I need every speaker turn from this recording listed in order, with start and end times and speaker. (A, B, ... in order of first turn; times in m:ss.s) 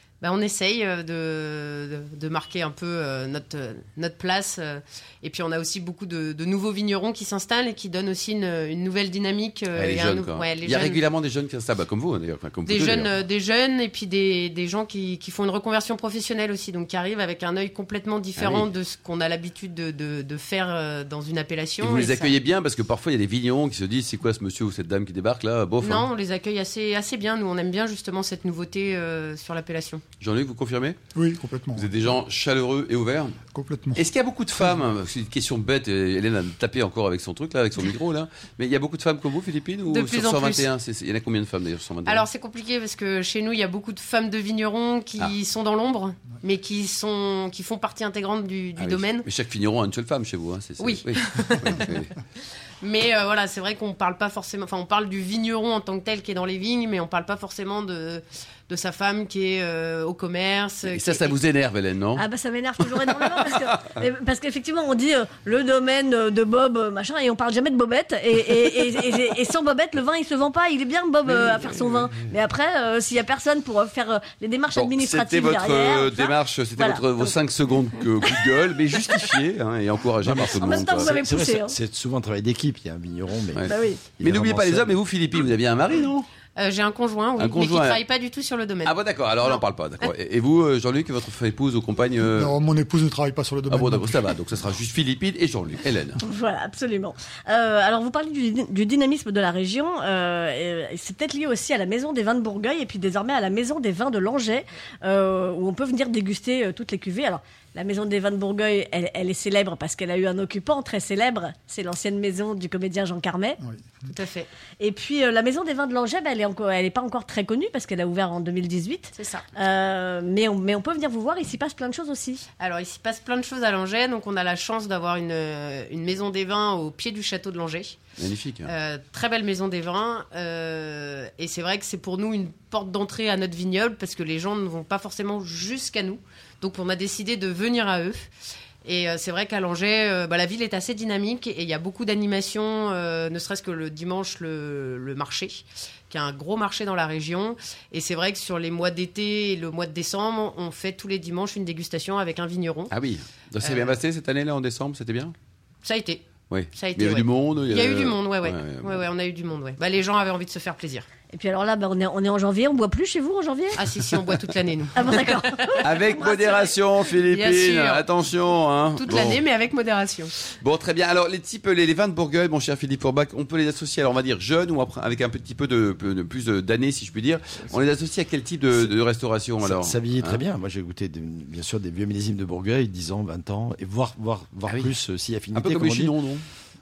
0:00.2-0:11.0 A
0:09.7-0:13.1 B
0:12.7-0:22.4 A
0:18.4-0:18.7 B
0:21.8-0:26.1 B
0:25.8-0:30.0 A
0:30.2-0:31.0 B
0:31.1-0:32.0 C
0:31.7-0:33.4 B
0:33.5-0:34.0 C
0:34.0-0:42.2 B
0:39.9-0:40.7 A
0:42.0-0:49.2 A
0:48.8-0:52.1 B
0:50.8-0:52.1 A
0:52.8-1:01.4 A
1:00.9-1:02.2 B
1:02.2-1:17.3 D
1:02.8-1:04.0 B
1:11.2-1:12.2 B
1:14.7-1:21.1 B
1:20.2-1:25.0 E
1:20.4-1:21.7 D
1:23.5-1:26.3 B
1:23.6-1:24.0 D
1:26.6-1:29.6 A
1:27.4-1:28.0 B
1:28.8-1:32.6 B
1:32.2-1:34.4 C
1:33.7-1:36.2 B
1:36.2-1:53.6 D
1:53.6-1:53.9 C
1:54.1-1:54.5 A
1:54.8-2:02.4 D
1:59.2-1:59.4 A
2:02.6-2:08.0 A
2:08.2-2:08.7 B
2:08.6-2:18.3 A
2:18.8-2:32.9 A
2:32.9-2:35.3 B
2:33.6-2:34.0 A
2:35.8-2:41.1 A
2:36.5-2:39.0 B
2:41.3-2:43.8 D
2:43.8-2:46.7 A
2:44.9-2:46.2 D
2:45.8-2:49.4 B
2:47.3-2:48.0 A
2:49.0-2:50.3 A
2:50.4-3:00.4 B
2:59.6-3:06.2 E
3:04.7-3:04.9 B
3:05.5-3:06.4 B